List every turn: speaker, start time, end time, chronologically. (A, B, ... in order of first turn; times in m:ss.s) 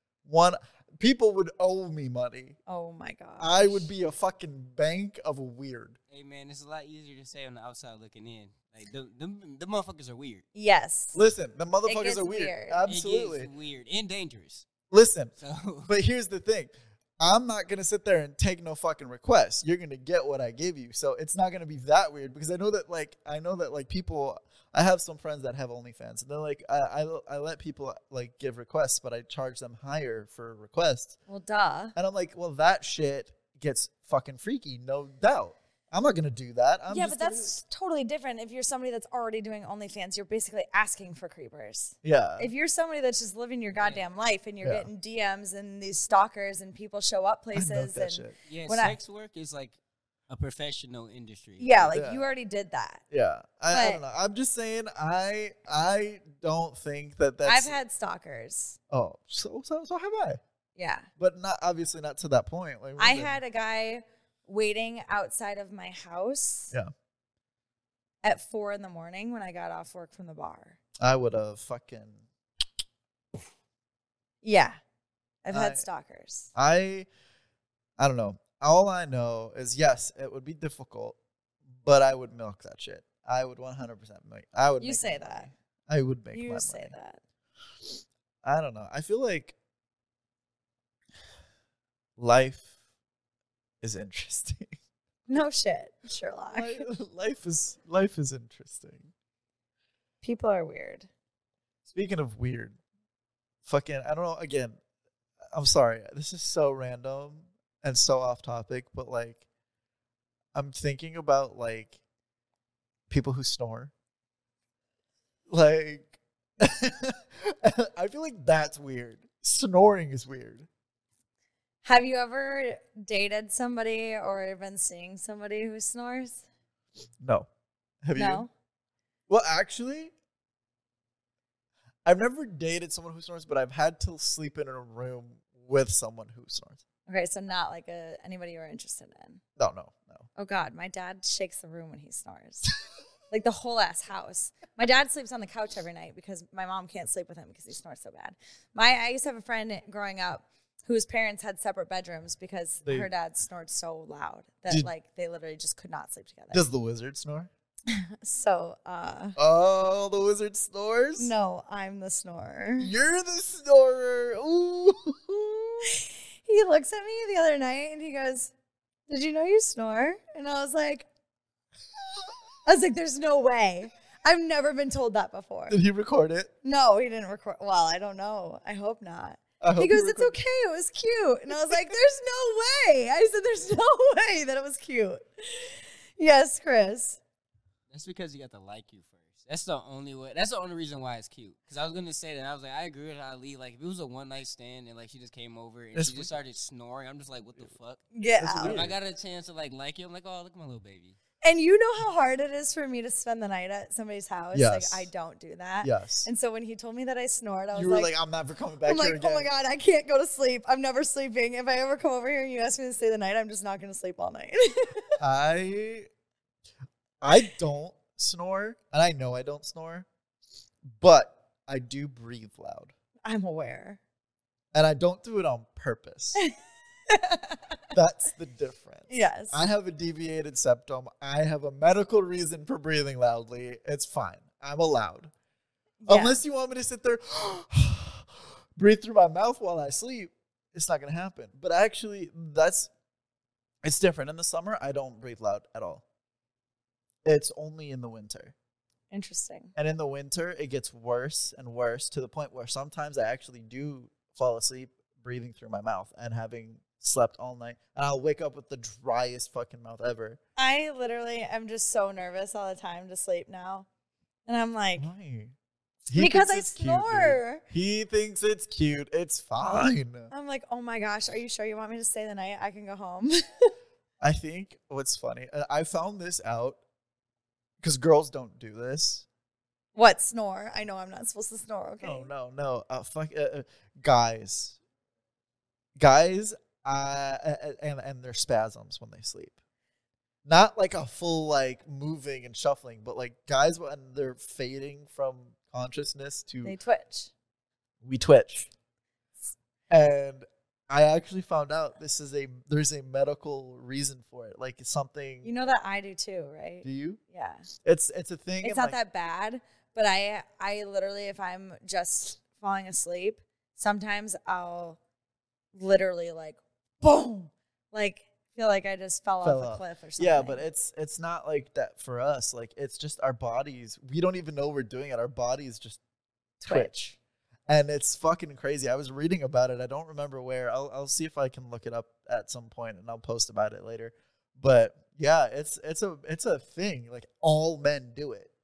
0:00.2-0:02.6 A
0:02.7-0:03.9 B
0:03.4-0:06.0 A
0:06.1-0:10.4 C
0:10.5-0:11.2 B
0:11.1-0:13.5 A
0:11.8-0:12.8 B
0:12.8-0:14.7 C
0:14.9-0:15.3 A
0:15.4-0:15.9 C
0:15.9-0:31.2 A
0:31.3-0:31.9 B
0:32.0-0:37.6 A
0:36.9-0:49.0 B
0:42.0-0:42.5 A
0:44.6-0:44.9 A
0:47.5-0:48.3 A
0:48.5-0:49.8 C
0:50.3-0:52.0 C
0:51.6-0:53.0 B
0:51.9-0:52.3 A
0:53.1-0:57.8 A
0:53.7-0:54.0 B
0:57.4-0:58.8 B
0:58.9-1:00.4 A
1:00.8-1:01.1 B
1:01.2-1:03.4 A
1:03.0-1:06.7 B
1:08.2-1:10.8 B
1:11.0-1:12.2 A
1:14.4-1:14.8 B
1:15.4-1:16.5 B
1:15.5-1:15.8 A
1:16.5-1:17.1 A
1:18.0-1:21.2 A
1:21.8-1:26.9 A
1:24.8-1:25.5 B
1:26.3-1:27.2 B
1:28.4-1:29.6 A
1:32.2-1:32.7 A
1:33.8-1:34.8 A
1:35.3-1:36.8 B
1:36.5-1:39.1 A
1:40.2-1:41.1 B
1:41.8-1:42.8 A
1:43.6-1:44.8 A
1:45.5-1:49.4 A
1:50.5-1:52.0 A
1:53.1-1:53.9 A
1:55.5-2:00.7 A
2:01.8-2:06.4 B
2:07.2-2:07.5 A
2:08.0-2:08.5 A
2:08.2-2:08.5 B
2:09.3-2:10.1 A
2:12.0-2:16.8 A
2:17.1-2:19.4 B
2:19.6-2:20.3 A
2:20.4-2:22.7 B
2:23.3-2:36.7 B
2:32.8-2:33.1 A
2:36.5-2:37.5 A
2:37.9-2:39.4 B
2:39.4-2:41.3 A
2:41.2-2:42.9 B
2:42.8-2:45.9 A
2:45.8-2:48.5 B
2:49.1-2:51.1 B
2:52.6-2:55.8 B
2:55.7-2:56.5 A
2:56.6-3:07.2 B
2:59.6-3:00.4 A
3:07.9-3:18.0 C
3:15.9-3:16.3 A
3:18.1-3:18.8 B
3:18.4-3:19.0 A
3:18.6-3:21.2 C
3:21.4-3:28.1 B
3:24.5-3:25.1 A
3:25.8-3:26.3 A
3:27.7-3:29.5 A
3:28.8-3:35.2 B
3:35.2-3:36.1 A
3:37.2-3:40.1 A
3:40.9-3:42.9 A
3:43.2-3:44.0 B
3:44.7-3:46.4 A
3:47.1-3:47.6 B
3:47.9-3:55.3 A
3:49.1-3:49.6 B
3:56.0-3:56.4 B
3:56.1-4:02.9 A
4:03.8-4:06.0 A
4:07.2-4:08.5 A
4:09.1-4:09.7 B
4:09.8-4:20.4 A
4:20.6-4:23.9 B
4:24.5-4:25.1 B
4:25.0-4:25.5 A
4:26.1-4:30.3 A
4:26.1-4:27.6 B
4:30.3-4:33.7 B
4:34.2-4:36.8 A
4:37.8-4:39.2 A
4:39.9-4:42.3 B
4:42.0-4:44.8 A
4:46.0-4:49.6 A
4:50.4-4:56.8 A
4:56.6-4:57.3 B
4:58.0-4:58.7 A
4:59.9-5:05.5 A
5:05.4-5:07.7 B
5:06.8-5:07.2 A
5:07.8-5:09.0 A
5:08.6-5:15.0 B
5:15.7-5:20.6 B
5:19.4-5:26.0 A
5:26.6-5:26.9 B
5:26.6-5:38.5 A